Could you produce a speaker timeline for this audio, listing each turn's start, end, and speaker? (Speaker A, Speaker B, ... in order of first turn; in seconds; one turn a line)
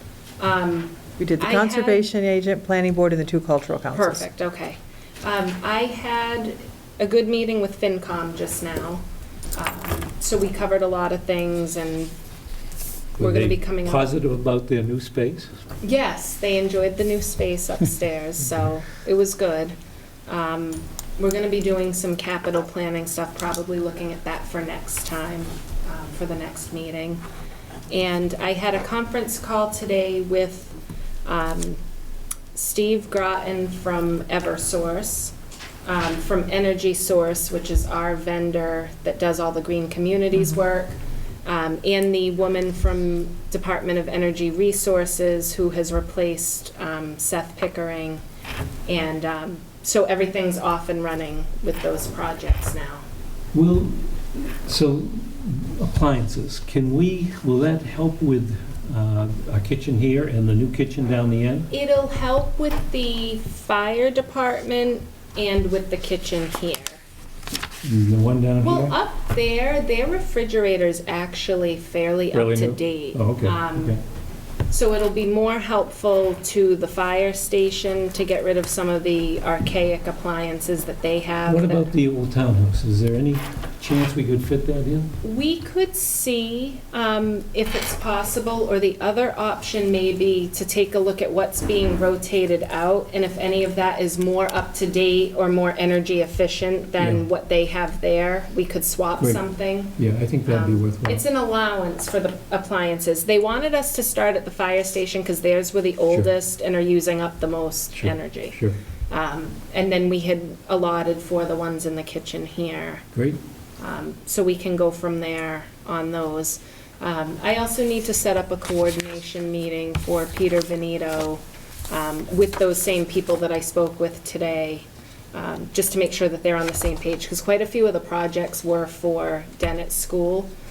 Speaker A: 0.4-2.1
Speaker B: 1.2-4.2
Speaker A: 3.9-9.0
Speaker A: 9.5-12.1
Speaker A: 13.2-14.1
Speaker C: 13.2-15.5
Speaker A: 15.8-19.8
Speaker A: 20.3-27.2
Speaker A: 27.9-31.8
Speaker A: 32.5-35.3
Speaker A: 35.9-48.2
Speaker A: 48.9-53.0
Speaker C: 53.5-61.7
Speaker A: 61.7-67.0
Speaker C: 67.8-69.0
Speaker A: 68.6-74.0
Speaker C: 72.3-74.0
Speaker A: 74.7-81.9
Speaker C: 81.5-85.1
Speaker A: 85.2-113.1
Speaker C: 97.0-97.2
Speaker C: 99.2-101.2
Speaker C: 107.9-108.8
Speaker C: 113.1-113.4
Speaker A: 113.8-130.5